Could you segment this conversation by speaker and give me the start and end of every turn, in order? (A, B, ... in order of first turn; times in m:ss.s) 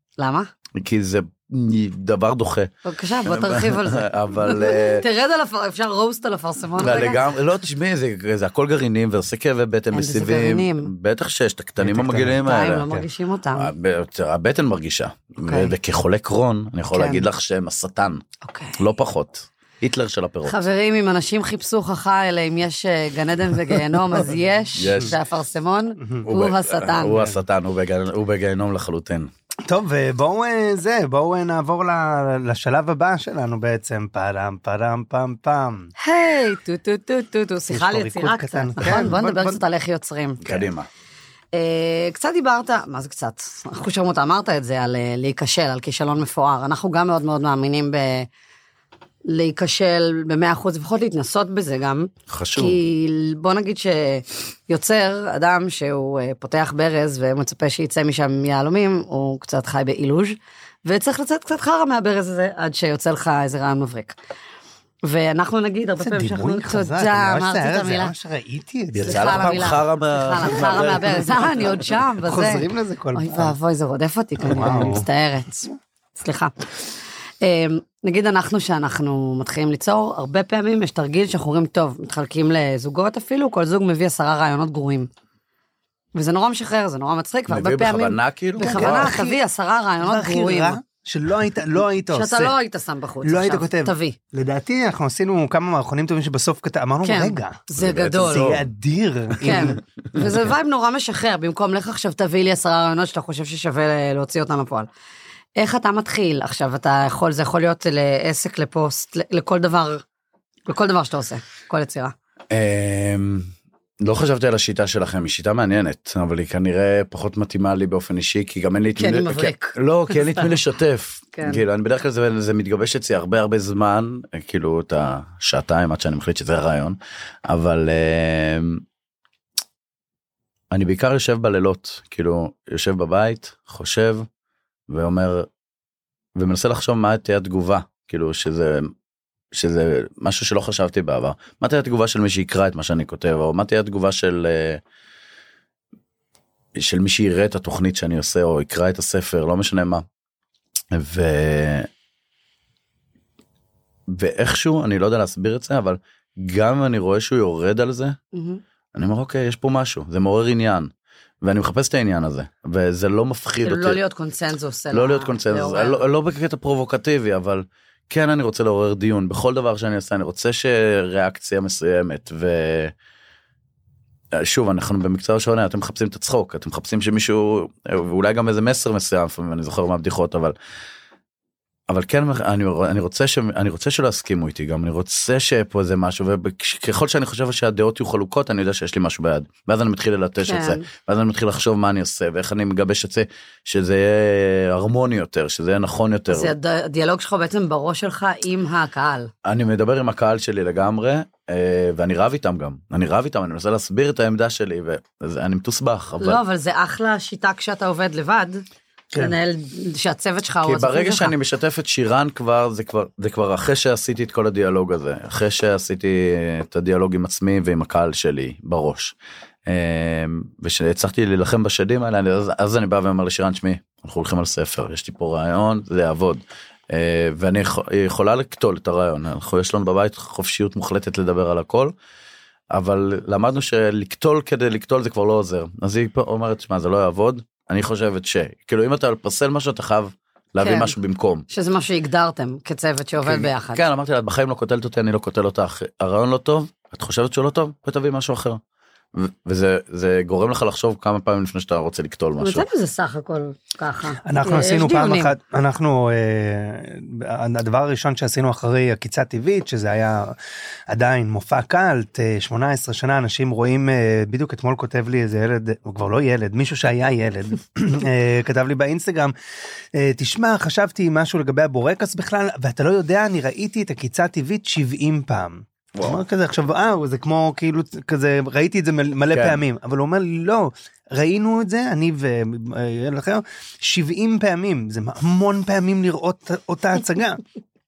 0:00.2-0:00.5 A
0:00.8-0:02.7 B
0:02.8-0:07.2 A
0:03.2-0:05.0 B
0:06.8-0:12.9 B
0:09.9-0:10.9 A
0:11.8-0:13.0 C
0:12.4-0:13.7 A
0:13.5-0:18.2 B
0:15.4-0:15.7 A
0:16.9-0:17.2 A
0:18.4-0:18.8 A
0:18.8-0:20.6 B
0:20.5-0:27.2 A
0:24.8-0:25.1 B
0:26.2-0:29.3 B
0:29.7-0:35.9 C
0:36.0-0:40.4 A
0:37.7-0:39.6 C
0:40.4-0:40.9 B
0:41.5-0:48.3 A
0:49.3-1:04.1 A
0:52.3-0:52.8 B
1:05.0-1:08.1 A
1:06.0-1:09.4 C
1:08.9-1:11.9 B
1:09.0-1:16.5 A
1:12.2-1:13.6 C
1:14.4-1:15.0 C
1:17.4-1:25.1 A
1:26.1-1:30.8 A
1:27.5-1:29.1 B
1:28.6-1:29.4 C
1:30.0-1:32.5 C
1:32.1-1:34.2 A
1:33.2-1:37.6 C
1:37.0-1:38.6 A
1:37.8-1:38.7 B
1:38.3-1:39.8 C
1:39.4-1:44.9 A
1:39.4-1:40.2 B
1:45.6-1:50.0 A
1:50.7-1:52.1 A
1:52.5-2:08.8 B
1:59.0-2:00.5 A
2:01.3-2:01.6 A
2:10.7-2:14.2 B
2:14.9-2:15.5 B
2:16.4-2:18.9 B
2:19.5-2:24.8 B
2:26.8-2:30.0 B
2:30.9-2:31.9 B
2:34.1-2:38.2 B
2:38.3-2:38.6 A
2:38.9-2:40.9 B
2:41.4-2:44.0 B
2:43.6-2:46.0 A
2:44.9-2:52.9 B
2:54.3-3:00.5 B
3:01.9-3:16.5 B
3:10.4-3:10.9 A
3:16.3-3:19.3 A
3:19.4-3:26.4 B
3:26.2-3:28.6 A
3:29.2-3:31.3 A
3:30.6-3:39.1 B
3:39.7-3:51.9 B
3:52.7-4:01.4 B
4:00.6-4:00.9 A
4:01.5-4:03.8 A
4:03.2-4:08.6 B
4:09.1-4:12.6 B
4:12.4-4:15.3 A
4:14.2-4:20.4 C
4:20.9-4:29.3 C
4:29.9-4:47.4 C
4:35.9-4:36.2 B
4:39.3-4:39.6 B